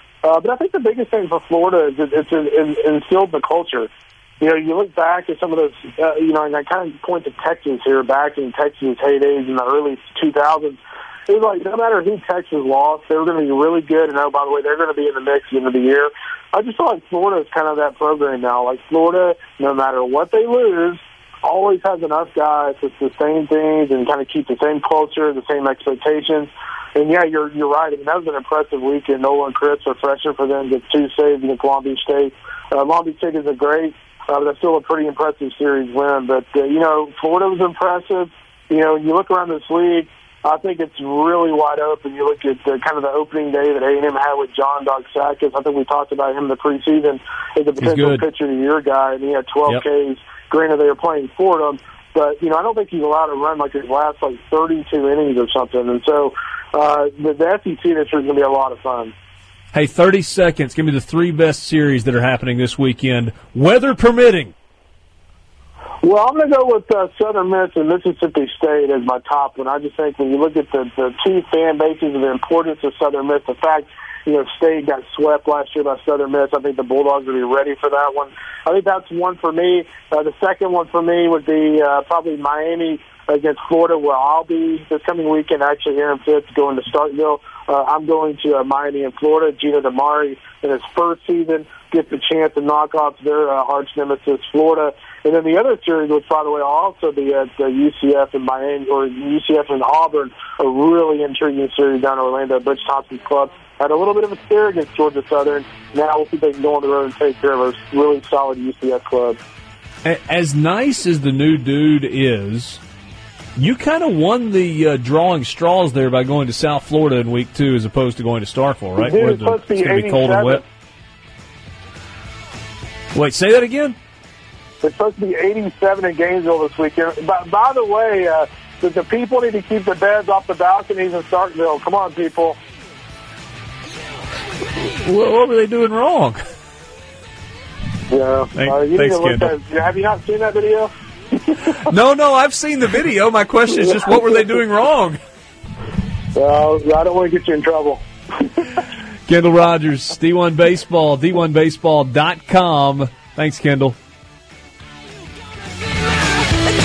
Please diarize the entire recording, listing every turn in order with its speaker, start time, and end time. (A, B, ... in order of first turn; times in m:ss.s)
0:00.2-0:59.1 A
0:47.8-0:48.2 B
0:59.7-1:04.5 B
1:06.0-1:49.4 A
1:50.0-1:52.8 B
1:53.6-2:00.6 B
1:59.0-2:00.6 A
2:03.1-2:04.0 B
2:04.8-2:12.6 A
2:15.0-2:16.4 B
2:18.1-2:20.9 A
2:18.5-2:19.5 B
2:21.8-2:25.2 B
2:26.3-2:28.0 A
2:29.3-2:34.0 B